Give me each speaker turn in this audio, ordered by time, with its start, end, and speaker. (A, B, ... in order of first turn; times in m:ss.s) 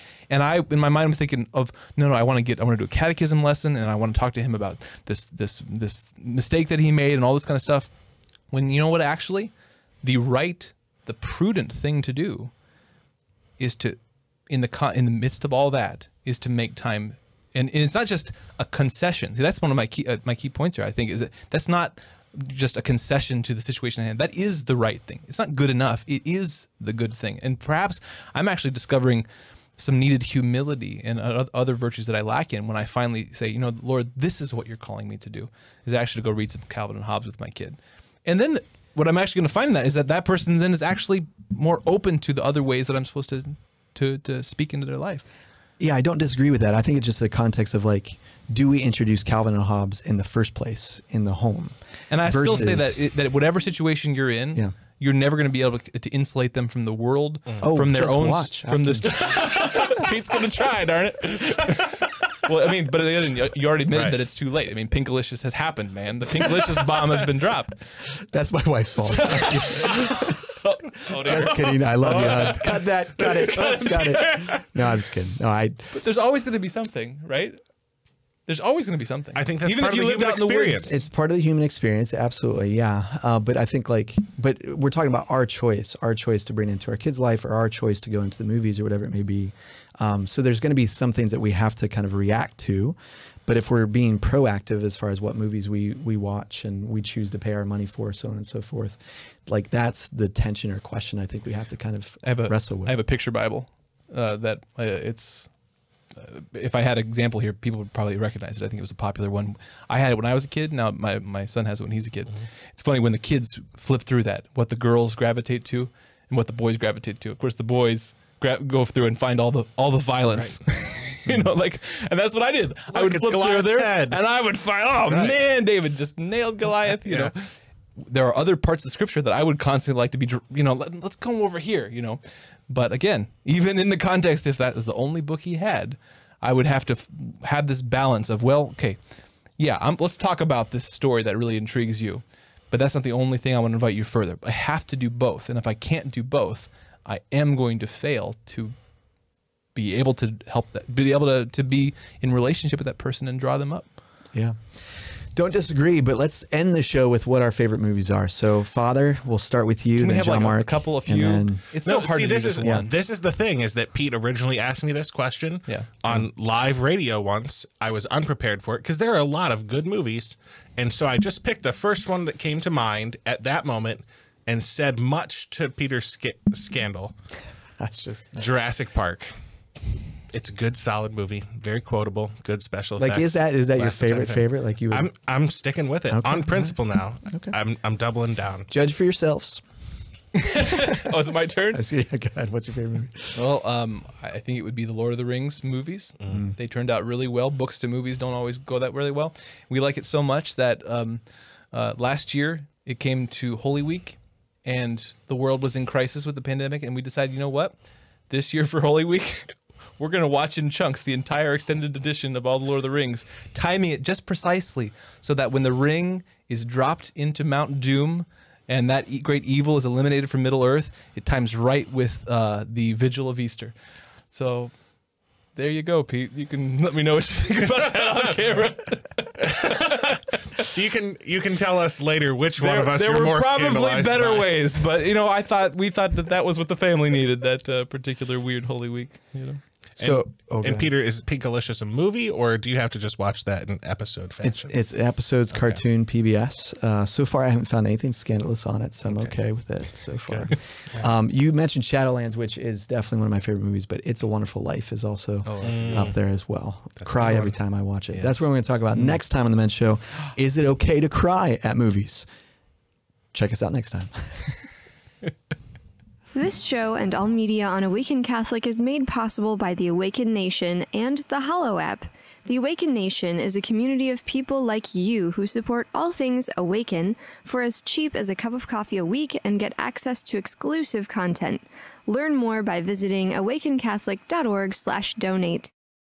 0:00.3-0:07.9 A
0:08.5-0:12.5 A
0:13.6-0:29.2 A
0:29.8-0:45.2 A
0:45.8-0:53.0 B
0:52.1-1:07.8 A
0:57.6-0:59.2 B
1:03.9-1:04.2 C
1:08.2-1:10.5 B
1:09.0-1:12.6 A
1:11.2-1:15.9 B
1:12.0-1:14.6 C
1:13.5-1:14.5 A
1:15.9-1:17.6 A
1:18.5-1:21.0 A
1:19.3-1:21.0 C
1:20.9-1:42.9 B
1:42.2-1:45.6 A
1:46.1-2:19.0 A
2:02.9-2:04.2 C
2:05.1-2:05.4 C
2:07.0-2:07.3 C
2:19.6-2:28.7 A
2:29.7-2:33.9 A
2:34.3-2:41.6 B
2:40.0-2:42.9 A
2:41.8-2:57.1 C
2:57.8-2:58.4 B
2:58.4-2:59.3 C
3:00.3-3:08.7 C
3:03.0-3:05.1 B
3:06.1-3:06.7 B
3:08.7-3:09.6 B
3:10.3-3:11.8 A
3:11.7-3:13.4 B
3:13.3-3:27.8 A
3:28.3-3:43.7 A
3:44.3-3:44.8 A
3:45.5-3:50.7 A
3:49.4-3:54.5 C
3:52.6-3:59.6 A
4:00.0-4:00.9 B
4:00.0-4:04.7 C
4:04.4-4:22.3 B
4:05.5-4:05.8 C
4:10.2-4:11.0 C
4:15.4-4:16.1 A
4:15.6-4:16.1 C
4:18.1-4:18.4 A
4:23.3-4:24.6 B
4:26.3-4:45.7 D